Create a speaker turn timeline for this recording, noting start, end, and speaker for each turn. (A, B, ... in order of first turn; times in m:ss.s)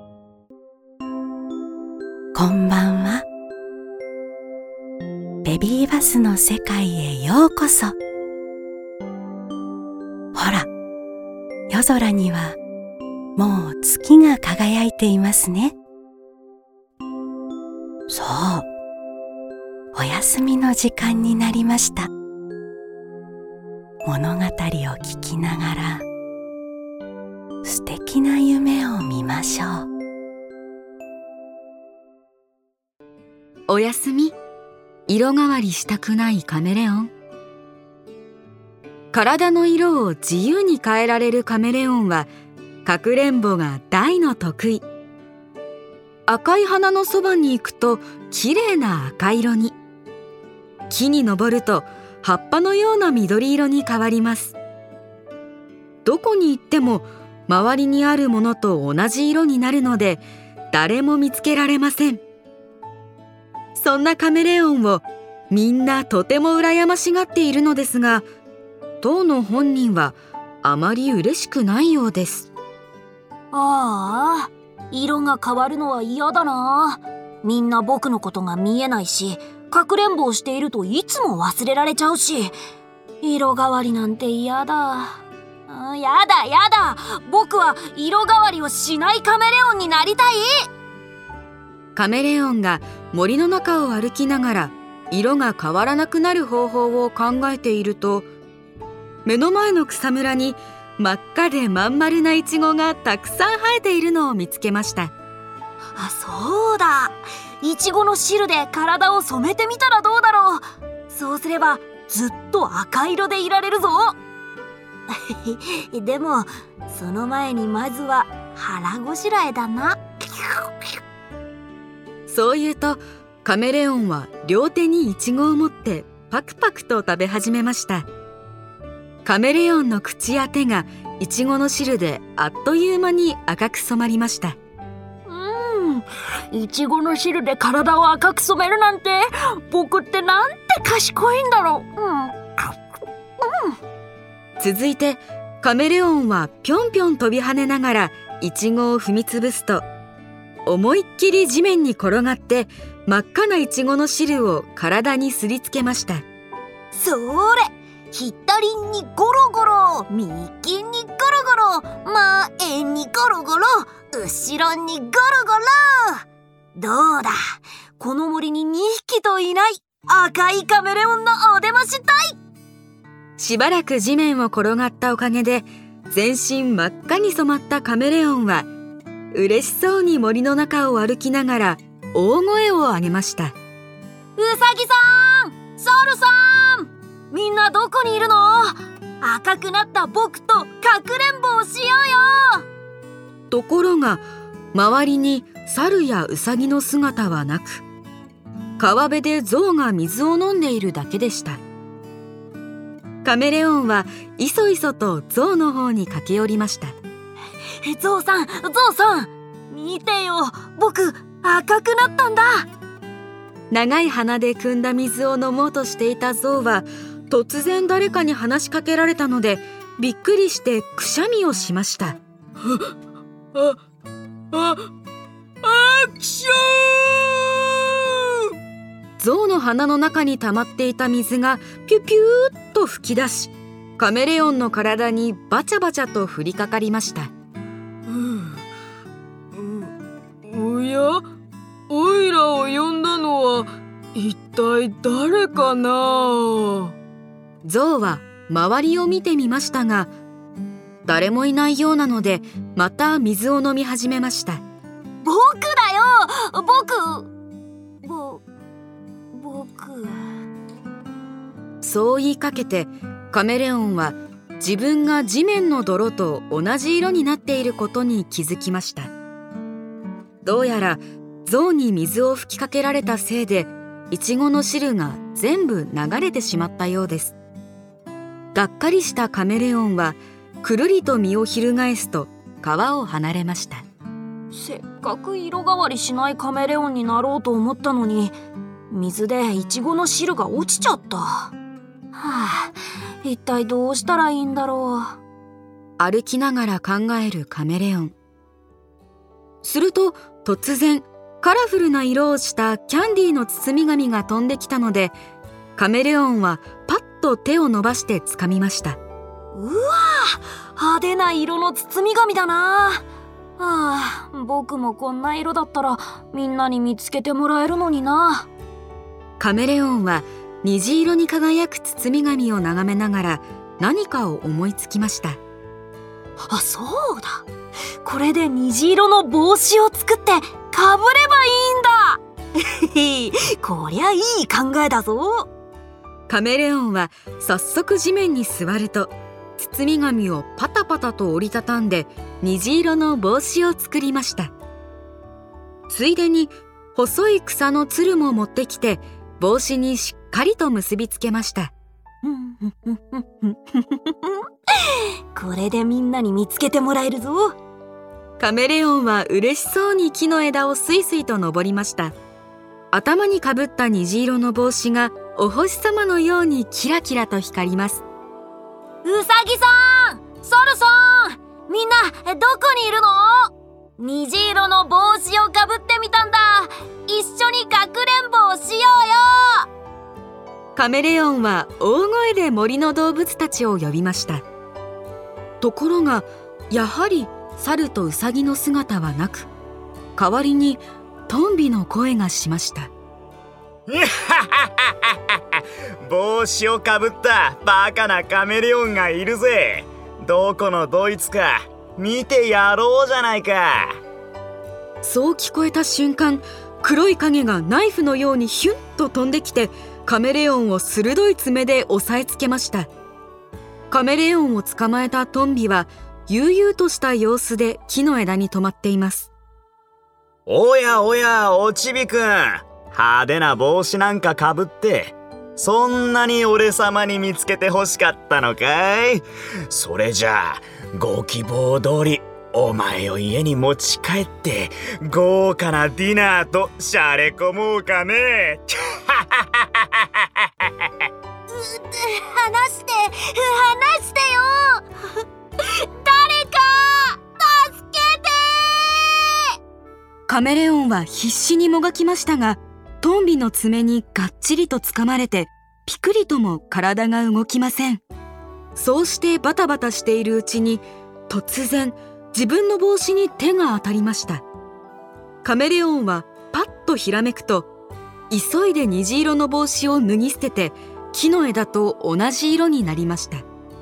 0:02.3-0:03.2 A
0:05.4-0:08.0 A
0:10.4-0:10.7 A
0:11.7-0:12.6 A
0:13.4-0:15.8 A
0:18.1-0:18.7 A
0:19.9-0:22.1 A
0:24.0-0:26.0 A
0:27.6-0:29.9 A
0:33.7-0:34.4 B
0:35.1-0:37.1 B
0:39.1-0:42.3 B
0:42.8-0:44.8 B
0:46.3-0:49.8 B
0:50.9-0:54.6 B
0:56.0-1:02.2 B
1:03.8-1:08.2 B
1:09.0-1:12.5 B
1:13.5-1:22.6 C
1:23.2-1:30.5 C
1:32.0-1:38.3 B
1:39.2-1:45.1 B
1:46.0-1:54.2 C
1:55.1-2:00.9 C
2:02.3-2:08.1 B
2:09.2-2:14.6 B
2:15.3-2:22.8 C
2:23.4-2:23.8 C
2:24.6-2:29.8 B
2:30.7-2:36.2 B
2:36.9-2:46.2 C
2:46.8-2:52.4 C
2:53.4-2:58.7 B
2:59.3-3:03.6 B
3:04.4-3:12.6 C
3:13.5-3:17.8 B
3:18.8-3:21.6 B
3:23.2-3:27.0 B
3:27.8-3:32.7 C
3:33.7-3:42.9 B
3:44.5-3:44.9 B
3:45.6-3:47.4 B
3:49.2-3:57.3 B
3:58.1-3:58.5 D
3:59.6-3:59.9 D
4:00.5-4:01.2 D
4:01.9-4:06.9 D
4:04.7-4:05.3 B
4:07.6-4:10.1 B
4:11.0-4:14.6 B
4:15.2-4:17.3 C
4:18.0-4:18.4 C
4:19.3-4:20.2 C
4:21.8-4:29.1 B
4:30.4-4:37.4 B
4:38.5-4:43.8 B
4:44.5-4:48.4 C
4:48.9-4:51.5 C
4:52.1-4:55.2 C
4:56.0-4:58.2 B
4:59.6-5:05.2 B
5:05.8-5:09.0 B
5:09.5-5:13.0 C
5:13.6-5:18.5 C
5:19.4-5:25.4 B
5:26.5-5:27.5 C
5:28.0-5:35.5 C
5:36.3-5:44.5 B
5:45.9-5:51.7 B
5:52.2-5:57.6 C
5:58.4-6:02.2 B
6:02.9-6:08.0 B
6:09.0-6:19.7 C
6:20.8-6:24.4 B
6:25.6-6:29.5 B
6:30.2-6:32.9 B
6:33.9-6:44.0 E
6:45.0-6:52.9 B
6:53.9-6:59.3 B
7:00.5-7:20.7 E
7:21.5-7:24.8 C
7:25.6-7:29.3 C
7:30.3-7:38.0 B
7:38.8-7:44.4 B
7:45.4-7:47.7 B
7:48.3-7:53.4 B